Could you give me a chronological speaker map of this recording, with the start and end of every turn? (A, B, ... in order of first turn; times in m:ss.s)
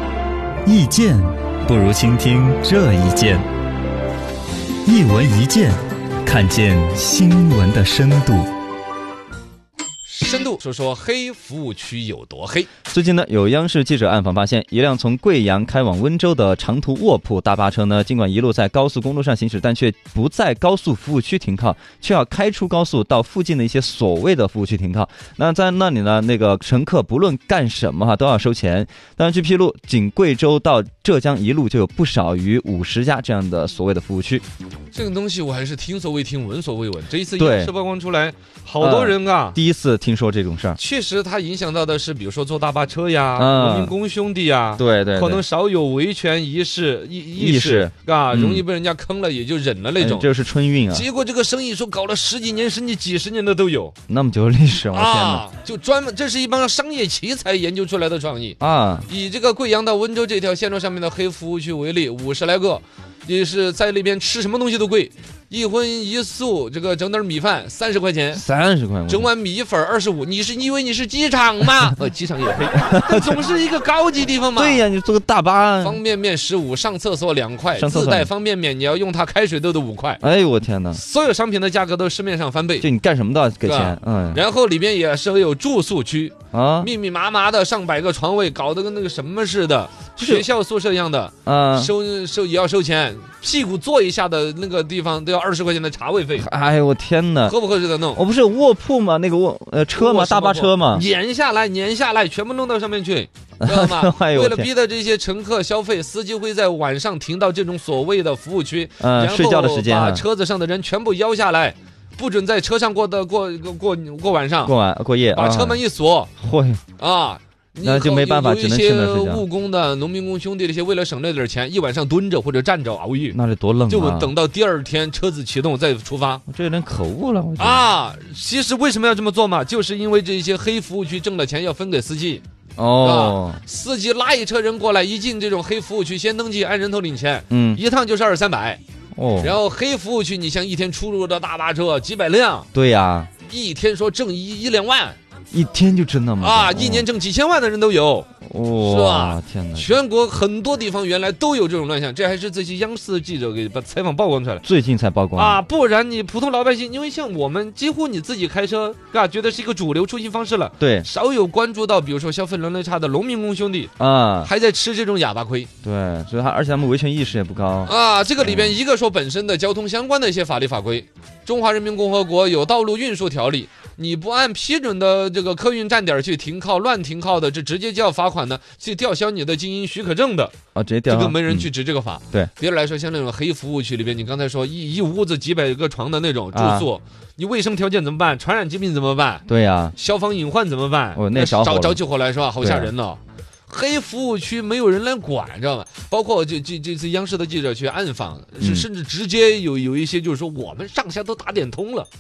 0:00.6-0:03.4 A
0:04.8-0:08.5 A
0:10.0-0:12.7 B
0:12.9-0:34.4 A
0:34.9-0:39.6 B
0:37.4-0:37.7 A
0:38.8-0:40.8 A
0:40.8-0:50.3 B
0:43.4-0:43.9 A
0:44.8-0:45.4 A
0:47.4-0:48.6 A
0:50.0-0:51.0 A
0:50.9-0:53.9 B
0:54.1-0:55.4 A
0:54.9-1:08.4 B
0:58.6-0:59.1 A
1:08.3-1:09.3 A
1:09.1-1:14.8 B
1:12.7-1:13.4 A
1:14.6-1:16.0 A
1:15.8-1:20.2 B
1:17.7-1:18.3 A
1:20.2-1:21.0 A
1:20.9-1:22.9 B
1:22.8-1:24.4 A
1:23.6-1:36.5 B
1:26.5-1:26.9 A
1:30.2-1:30.5 A
1:31.4-1:31.9 A
1:36.4-1:37.5 A
1:37.4-1:38.2 B
1:38.1-1:41.0 A
1:40.0-1:54.7 B
1:43.6-1:44.7 A
1:49.0-1:50.2 A
1:54.6-1:55.8 A
1:55.3-1:56.3 B
1:56.4-1:56.8 A
1:57.0-2:03.4 B
1:57.8-1:59.4 A
2:03.3-2:04.3 A
2:03.9-2:06.4 B
2:06.5-2:07.8 A
2:07.6-2:12.4 B
2:12.8-2:13.6 A
2:13.0-2:18.8 B
2:17.5-2:17.8 A
2:19.1-2:19.5 A
2:19.4-2:22.7 B
2:22.7-2:23.3 A
2:23.4-2:25.2 B
2:25.5-2:27.1 A
2:26.4-2:28.3 B
2:28.4-2:29.9 A
2:28.8-2:34.6 B
2:34.6-2:35.6 A
2:35.4-2:43.9 B
2:40.8-2:41.1 A
2:44.0-2:44.5 A
2:44.4-2:45.7 B
2:45.8-2:48.8 A
2:47.8-3:00.5 B
3:00.7-3:01.7 A
3:01.1-3:09.4 B
3:06.5-3:06.9 A
3:09.5-3:09.9 A
3:10.0-3:22.1 B
3:11.1-3:12.0 A
3:12.6-3:12.9 A
3:18.6-3:18.9 A